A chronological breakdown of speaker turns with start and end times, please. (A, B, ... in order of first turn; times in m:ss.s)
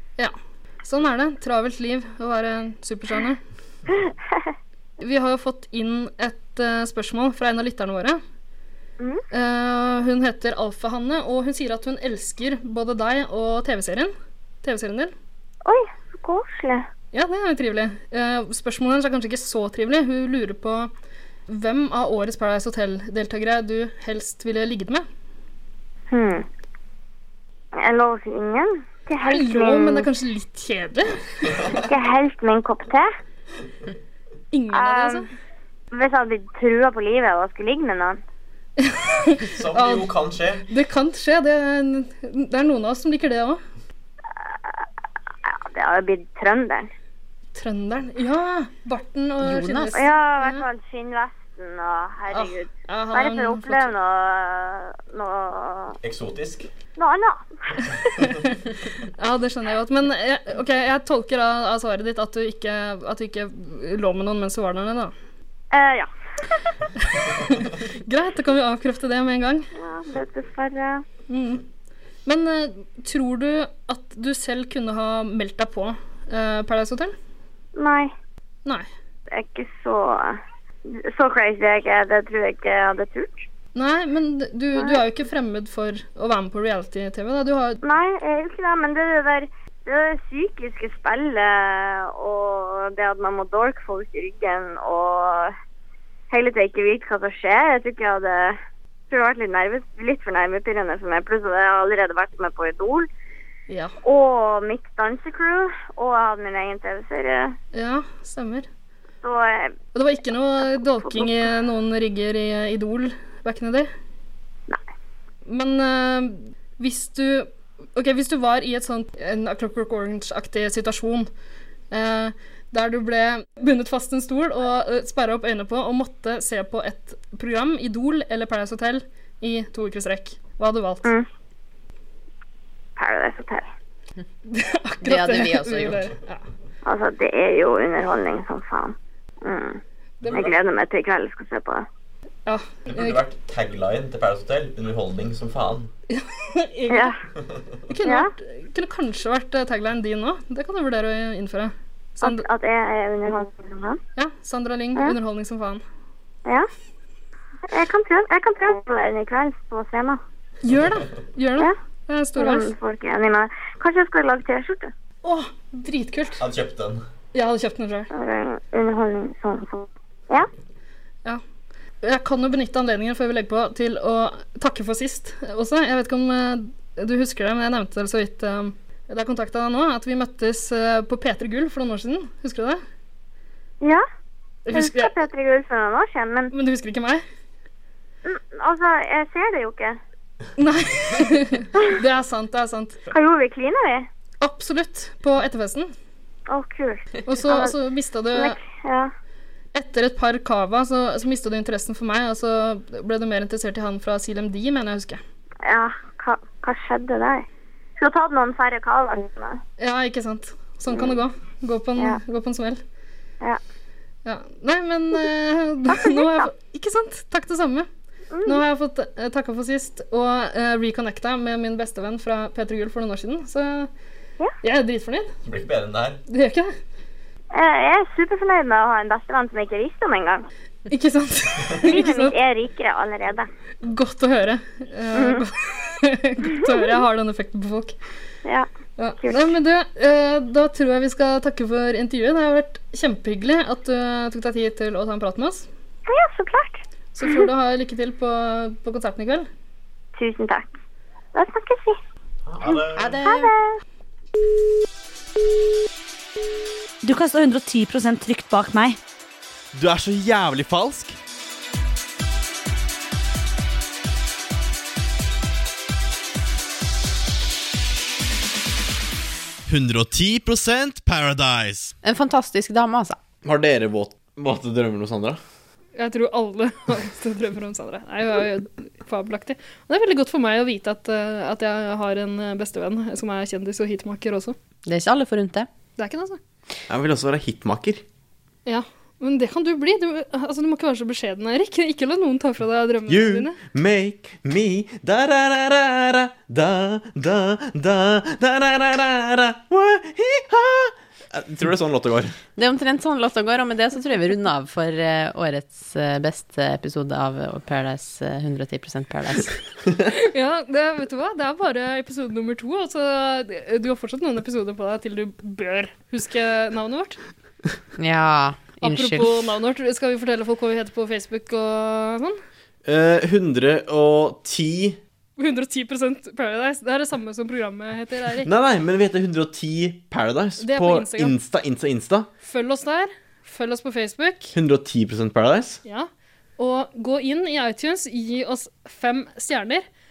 0:00.2-0:03.4 A
0:03.9-0:04.5 B
0:05.0-0:08.2 A
0:09.3-0:15.1 A
0:15.6-0:16.9 B
0:17.1-0:20.9 A
0:21.5-0:25.0 A
0:26.1-0:26.5 B
0:27.8-0:30.1 B
0:29.2-0:31.6 A
0:31.8-0:33.1 B
0:34.5-0:35.3 A
0:34.7-0:35.3 B
0:35.9-0:38.2 B
0:38.8-0:40.1 A
0:39.4-0:40.7 C
0:40.7-0:43.6 A
0:44.3-0:44.8 B
0:45.4-0:46.9 B
0:47.6-0:50.6 A
0:49.4-0:50.0 D
0:49.9-0:56.0 B
0:52.3-0:53.9 A
0:56.0-0:56.7 C
0:57.0-0:58.3 B
0:57.8-1:05.1 A
1:05.7-1:06.7 B
1:07.0-1:09.7 A
1:09.8-1:11.0 B
1:11.3-1:11.6 A
1:12.3-1:17.1 A
1:17.8-1:18.1 B
1:19.3-1:23.4 B
1:23.8-1:27.8 A
1:27.8-1:35.6 B
1:36.3-1:38.6 B
1:39.1-1:43.1 B
1:43.7-1:44.0 A
1:44.0-1:47.6 B
1:47.7-1:48.7 A
1:49.2-1:49.8 B
1:49.9-1:53.9 A
1:50.7-1:51.5 B
1:55.5-2:01.3 A
2:01.9-2:11.1 A
2:13.0-2:13.7 B
2:14.5-2:16.4 A
2:15.0-2:16.0 D
2:16.8-2:19.8 B
2:20.2-2:20.6 A
2:20.3-2:21.8 B
2:22.5-2:23.2 A
2:22.9-2:25.9 C
2:26.1-2:27.2 A
2:26.9-2:27.2 B
2:27.9-2:32.5 A
2:28.0-2:28.3 B
2:32.2-2:34.0 B
2:34.2-2:35.8 A
2:37.7-2:40.2 B
2:40.6-2:42.7 A
2:42.4-2:44.9 B
2:45.2-2:46.4 A
2:46.4-2:47.0 C
2:47.3-2:48.1 A
2:48.1-2:50.5 B
2:52.0-3:02.8 A
3:04.7-3:05.2 A
3:04.7-3:06.5 B
3:06.5-3:07.2 A
3:08.2-3:10.0 B
3:10.6-3:13.1 A
3:13.1-3:14.1 B
3:14.4-3:15.9 A
3:16.5-3:17.7 B
3:17.3-3:18.6 A
3:18.3-3:19.1 B
3:19.7-3:25.2 A
3:25.6-3:27.5 B
3:28.0-3:29.6 B
3:29.8-3:32.8 A
3:34.2-3:37.9 A
3:35.9-3:36.5 B
3:38.3-3:38.6 B
3:38.4-3:43.9 A
3:44.6-3:45.3 A
3:45.4-3:46.2 C
3:46.3-3:46.7 A
3:47.5-3:50.5 B
3:50.9-3:52.4 A
3:51.8-3:53.5 B
3:53.8-3:58.0 A
3:55.1-3:55.4 B
3:56.5-3:57.0 B
3:59.0-4:05.7 A
3:59.2-3:59.5 B
4:06.1-4:07.5 B
4:07.2-4:09.5 A
4:10.2-4:10.7 B
4:11.3-4:12.0 B
4:12.5-4:13.2 C
4:12.7-4:13.8 B
4:13.0-4:13.5 D
4:17.0-4:19.0 E
4:19.7-4:21.2 C
4:29.7-4:31.9 C
4:32.0-4:33.2 D
4:33.4-4:35.4 C
4:36.0-4:44.6 A
4:44.8-4:45.7 D
4:46.0-4:46.4 A
4:46.9-4:48.0 C
4:48.7-4:53.6 A
4:53.1-5:02.4 C
5:02.6-5:09.6 D
5:10.1-5:17.2 A
5:18.0-5:19.4 D
5:18.8-5:22.4 A
5:22.8-5:25.0 C
5:25.4-5:28.5 A
5:28.4-5:32.3 C
5:30.6-5:31.3 A
5:32.4-5:34.5 A
5:34.5-5:35.8 C
5:35.8-5:39.8 A